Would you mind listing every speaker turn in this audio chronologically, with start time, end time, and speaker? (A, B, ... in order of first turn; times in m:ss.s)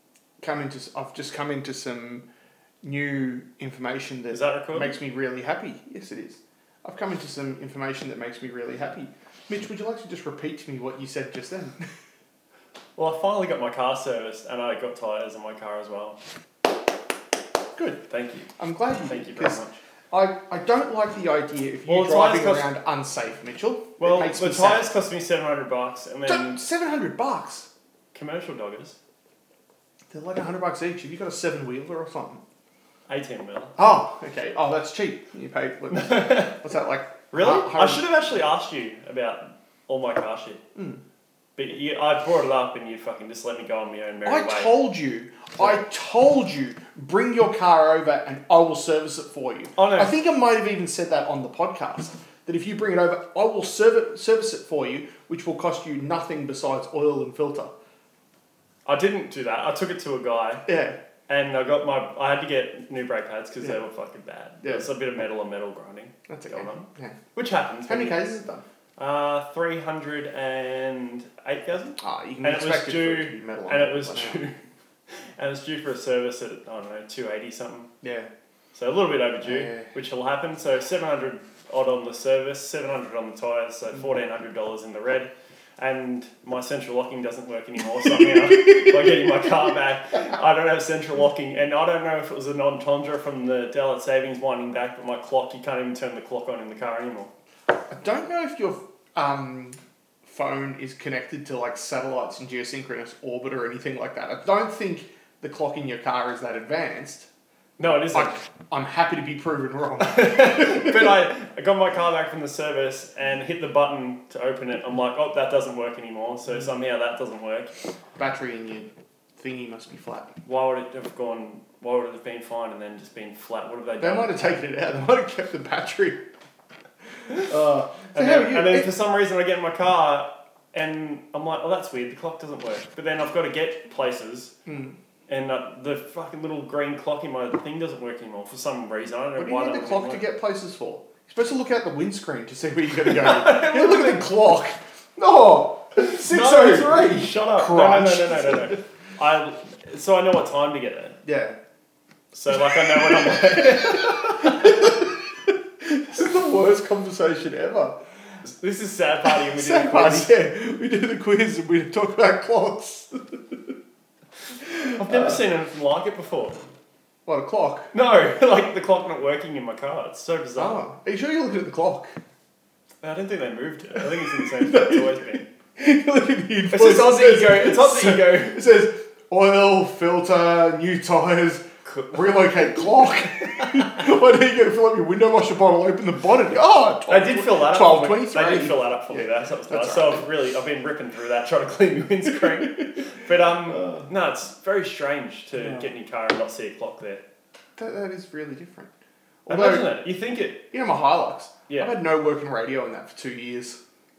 0:00.4-0:02.2 A
0:02.8-0:11.8 A
0:04.3-0:05.0 B
0:13.0-0:16.2 B
0:17.7-0:18.0 A
0:18.1-0:18.5 B
0:18.6-0:24.9 A
0:19.0-0:19.8 B
0:21.9-0:22.7 B
0:24.0-0:26.6 B
0:26.2-0:27.7 A
0:28.1-0:29.0 B
0:30.1-0:32.4 A
0:33.1-0:33.7 B
0:33.8-0:38.0 A
0:35.9-0:36.6 B
0:37.3-0:40.6 B
0:40.7-0:41.0 A
0:41.6-0:44.8 B
0:44.2-0:57.7 A
0:49.8-0:50.1 B
0:58.8-1:00.6 B
1:00.6-1:01.0 A
1:01.3-1:08.4 B
1:04.6-1:04.9 A
1:06.3-1:07.2 A
1:07.8-1:08.6 A
1:09.0-1:14.6 B
1:12.0-1:14.5 A
1:15.4-1:17.9 B
1:18.0-1:18.3 A
1:18.7-1:37.3 B
1:19.4-1:19.9 A
1:28.6-1:28.9 A
1:37.9-1:47.3 A
1:47.8-1:48.4 B
1:47.9-1:51.1 A
1:50.0-1:57.7 B
1:58.2-2:00.3 A
2:00.4-2:04.4 B
2:04.0-2:06.2 A
2:07.2-2:08.9 A
2:08.1-2:14.5 B
2:14.6-2:15.0 A
2:15.3-2:20.2 B
2:19.4-2:28.8 A
2:23.0-2:24.3 B
2:26.0-2:31.2 B
2:31.2-2:31.6 A
2:32.3-2:34.9 B
2:32.5-2:35.1 A
2:35.8-2:38.0 A
2:38.4-2:40.3 B
2:39.2-2:43.7 A
2:44.6-2:45.4 A
2:45.0-2:46.6 B
2:47.2-2:47.9 A
2:47.9-2:50.8 B
2:50.5-2:52.1 A
2:53.0-2:55.4 B
2:54.0-3:10.3 A
2:56.7-2:58.6 B
3:01.8-3:02.8 B
3:03.4-3:04.0 B
3:07.1-3:17.2 B
3:12.4-3:14.1 A
3:15.6-3:15.9 A
3:17.8-3:18.9 A
3:19.4-3:20.0 A
3:19.5-3:20.6 B
3:20.7-3:23.8 A
3:21.7-3:21.9 B